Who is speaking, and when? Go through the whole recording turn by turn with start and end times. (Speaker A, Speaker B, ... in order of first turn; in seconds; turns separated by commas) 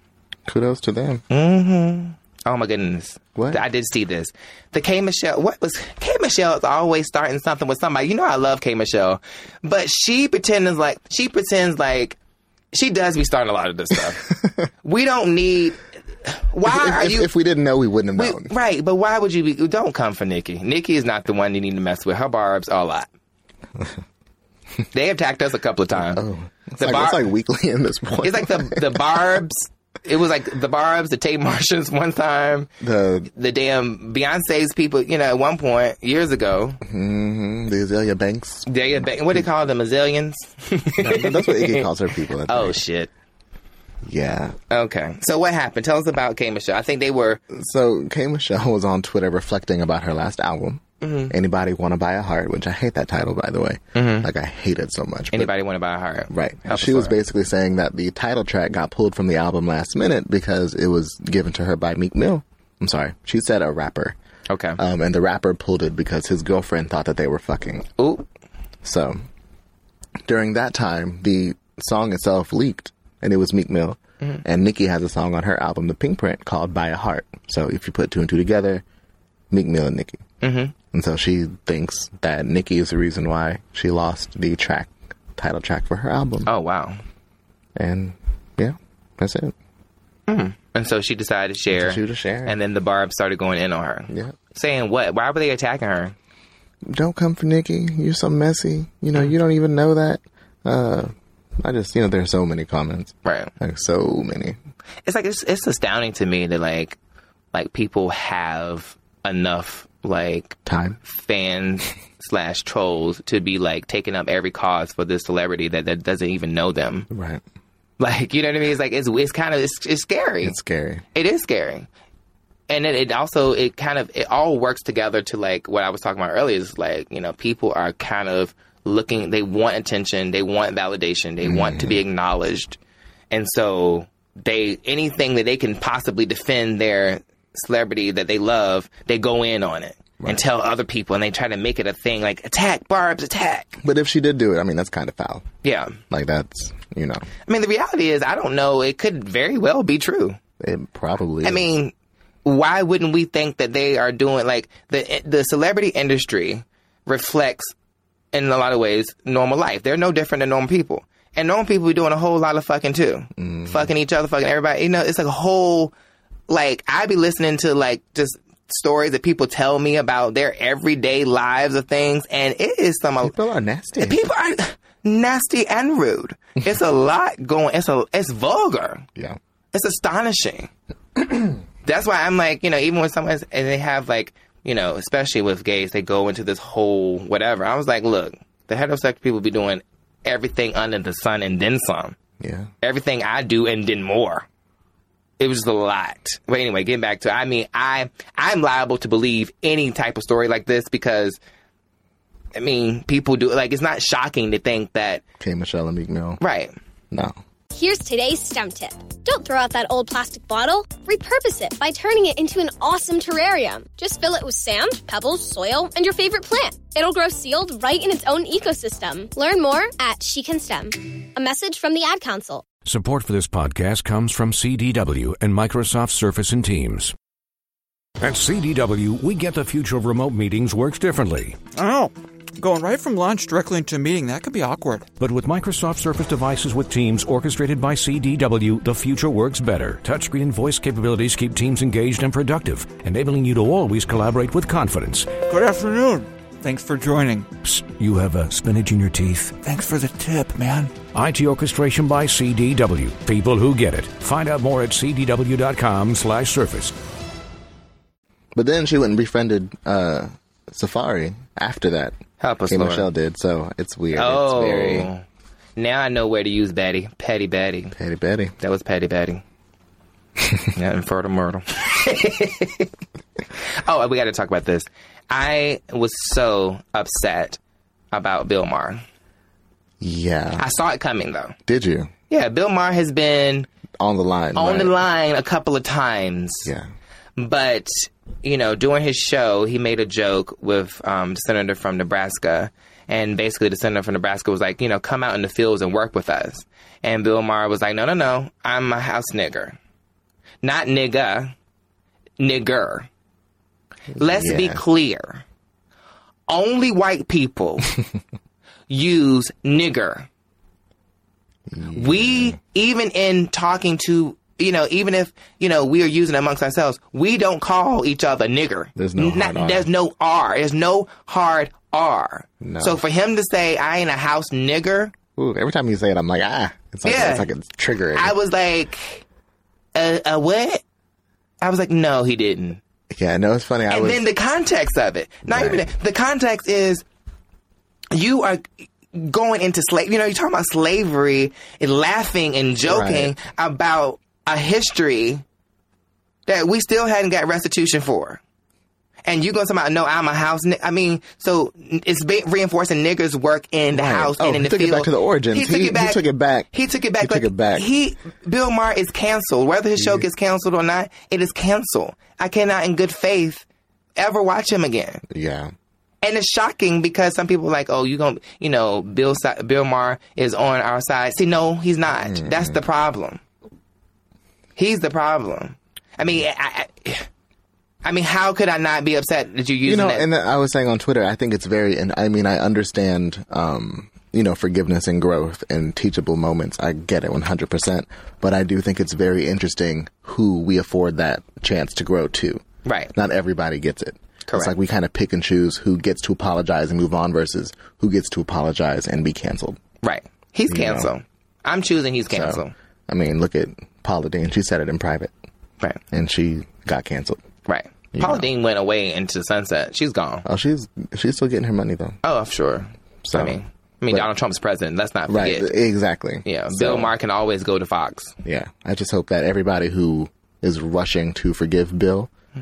Speaker A: 0.5-1.2, Speaker B: 1.3-12.2, Speaker A: 3.4-3.6, Speaker B: 12.7-14.3, Speaker B: 14.8-17.3, Speaker A: 16.6-18.5, Speaker B: 18.1-23.1, Speaker B: 24.9-26.2, Speaker A: 26.0-29.0, Speaker B: 26.8-27.2, Speaker B: 28.2-32.7, Speaker A: 32.8-33.3, Speaker B: 33.3-36.8, Speaker A: 36.8-39.5, Speaker B: 38.6-41.9, Speaker A: 41.0-42.8, Speaker B: 42.5-43.1, Speaker A: 44.0-44.5, Speaker B: 44.7-47.4, Speaker A: 47.5-55.5, Speaker B: 51.0-51.3, Speaker B: 53.9-54.3, Speaker B: 55.3-57.2, Speaker A: 56.3-64.2, Speaker B: 64.5-64.8, Speaker A: 64.8-67.9, Speaker B: 68.0-68.2, Speaker A: 68.8-69.2, Speaker A: 70.2-78.8, Speaker A: 79.5-80.2, Speaker B: 80.4-80.7, Speaker A: 80.9-86.5, Speaker B: 86.5-87.0, Speaker A: 87.8-89.5, Speaker B: 90.3-96.1, Speaker A: 91.7-92.5, Speaker A: 94.1-94.3, Speaker A: 96.8-104.6, Speaker B: 103.2-103.5, Speaker B: 105.0-107.0, Speaker B: 107.5-117.1, Speaker A: 110.7-111.0, Speaker A: 117.1-117.4, Speaker B: 118.0-120.5, Speaker A: 120.4-121.0, Speaker B: 121.1-121.9, Speaker B: 122.7-132.8, Speaker A: 131.4-132.0, Speaker B: 133.3-143.8, Speaker A: 143.8-145.4, Speaker B: 145.6-146.0, Speaker A: 146.1-147.2, Speaker B: 147.4-150.4, Speaker A: 150.6-151.7, Speaker B: 151.4-151.9, Speaker B: 152.4-157.7, Speaker B: 158.3-165.9, Speaker A: 163.4-163.9, Speaker B: 166.5-173.3, Speaker A: 173.2-174.2, Speaker B: 174.0-179.1, Speaker B: 179.7-180.7, Speaker B: 181.8-192.2, Speaker A: 192.4-192.7, Speaker B: 192.8-194.4, Speaker B: 195.4-201.4, Speaker B: 202.5-205.2, Speaker A: 205.4-206.4, Speaker B: 206.4-206.7, Speaker A: 207.1-207.3, Speaker C: 207.7-222.7, Speaker D: 222.8-227.1, Speaker D: 228.2-231.6, Speaker E: 231.7-235.1, Speaker D: 235.2-245.4, Speaker E: 245.4-247.5, Speaker D: 247.6-249.6, Speaker E: 249.6-250.9, Speaker D: 251.1-256.9, Speaker A: 258.5-262.2, Speaker B: 262.4-263.1, Speaker A: 262.7-265.1, Speaker B: 264.1-265.2, Speaker B: 265.8-267.9, Speaker A: 267.9-268.5, Speaker B: 268.6-269.4, Speaker B: 270.7-272.9, Speaker B: 273.8-277.6, Speaker B: 278.1-279.0, Speaker A: 280.0-280.6, Speaker B: 280.6-281.6, Speaker A: 281.6-282.1, Speaker B: 282.3-283.7, Speaker A: 284.0-284.9, Speaker B: 284.5-286.7, Speaker B: 287.4-299.8, Speaker B: 300.6-301.5, Speaker B: 302.4-303.1, Speaker A: 304.1-304.8, Speaker B: 304.1-305.4, Speaker B: 306.5-307.9, Speaker B: 308.9-310.3, Speaker A: 311.7-312.6, Speaker B: 311.9-325.1, Speaker A: 318.9-319.9, Speaker A: 322.6-323.0, Speaker A: 325.4-328.3, Speaker B: 327.0-327.5, Speaker B: 328.1-329.2, Speaker B: 329.9-330.8, Speaker B: 331.6-332.8, Speaker A: 333.1-334.2, Speaker B: 333.9-337.0, Speaker A: 335.5-335.9, Speaker B: 338.1-345.4, Speaker A: 342.8-343.3, Speaker B: 346.5-348.4, Speaker B: 349.2-363.6, Speaker A: 353.9-357.9, Speaker A: 360.0-360.2, Speaker B: 364.2-365.2, Speaker A: 365.3-365.7, Speaker B: 366.2-373.4, Speaker A: 372.2-372.8, Speaker B: 374.8-377.3, Speaker B: 378.0-380.2, Speaker A: 379.8-399.8, Speaker B: 392.8-393.1, Speaker B: 394.5-394.7, Speaker B: 400.0-402.7, Speaker A: 400.7-401.1, Speaker A: 402.3-405.3, Speaker A: 406.1-407.4, Speaker B: 407.6-410.4, Speaker A: 408.1-408.5, Speaker A: 410.4-412.2, Speaker B: 412.2-415.7, Speaker A: 413.2-413.6, Speaker A: 415.3-417.1, Speaker B: 416.4-418.4, Speaker A: 418.4-422.3